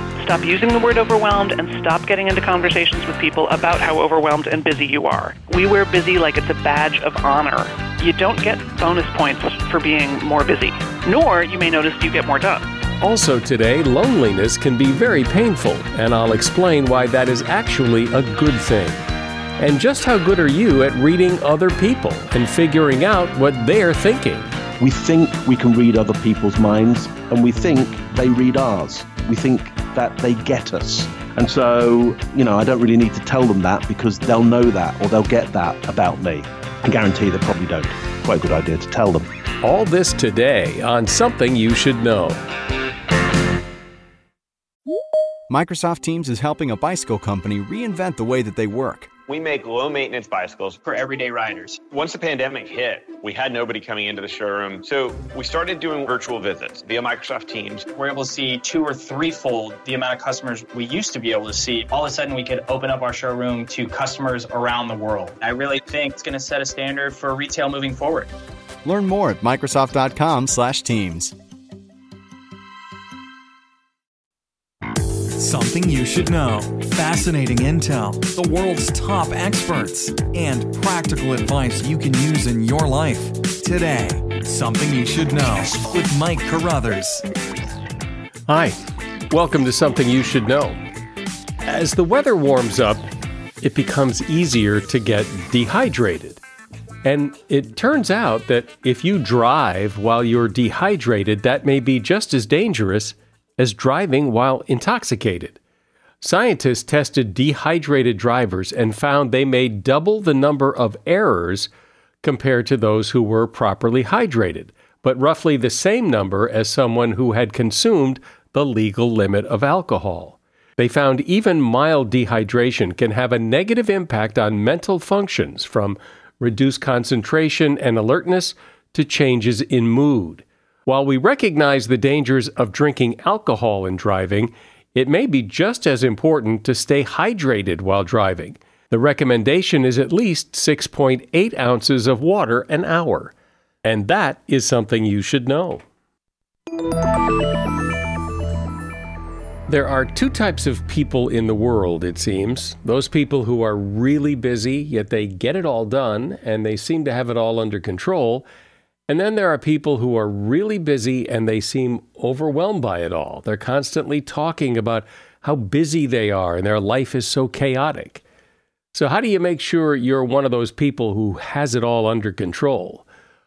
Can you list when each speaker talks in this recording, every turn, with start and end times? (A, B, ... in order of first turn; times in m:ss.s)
0:00.2-0:12.7 A
0:13.0-0:19.0 B
0:19.6-0:24.5 B
0:24.8-0:39.3 C
0:39.6-0:42.4 B
0:45.5-0:49.1 D
0:49.3-0:50.8 E
0:50.8-0:51.8 F
0:51.9-0:57.9 E
0:57.9-1:08.3 F
1:08.8-1:11.3 D
1:15.3-1:27.2 G
1:28.5-1:28.8 B
1:29.3-1:30.8 B
1:31.6-1:33.0 B
1:33.6-1:36.4 B
1:37.0-1:45.6 B
1:46.2-1:51.7 B
1:52.2-2:25.8 B
2:29.7-2:38.5 B
2:39.1-2:48.2 B
2:48.9-2:53.1 B